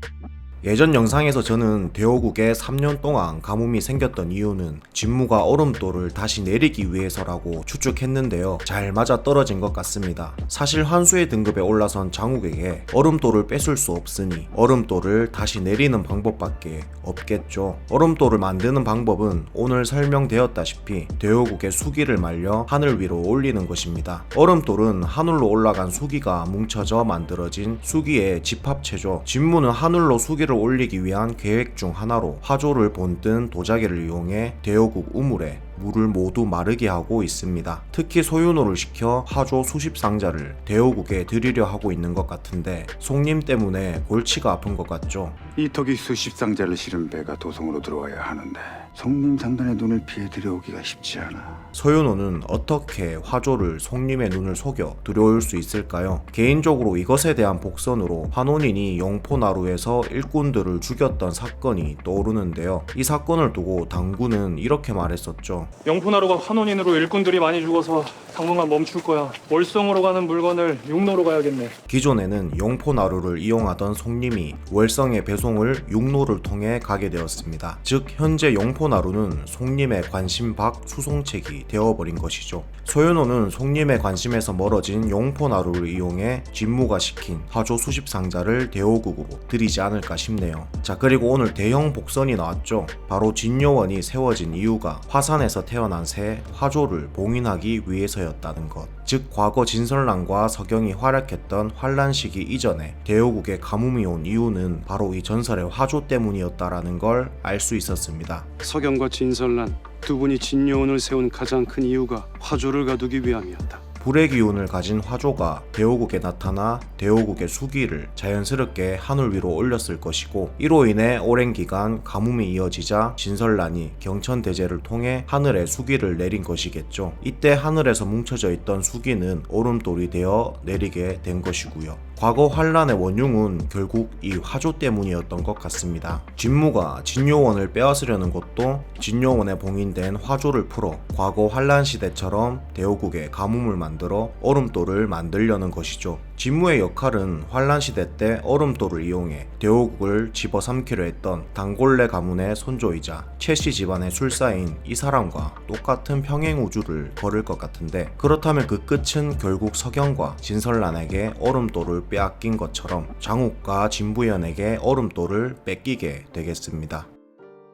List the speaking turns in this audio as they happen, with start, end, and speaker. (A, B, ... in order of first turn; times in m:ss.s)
0:00.6-0:45.4 A
0:45.6-0:51.7 B
0:51.7-1:05.7 A
1:05.8-1:11.8 C
1:11.9-1:48.5 A
1:48.6-1:53.8 D
1:54.0-2:47.1 A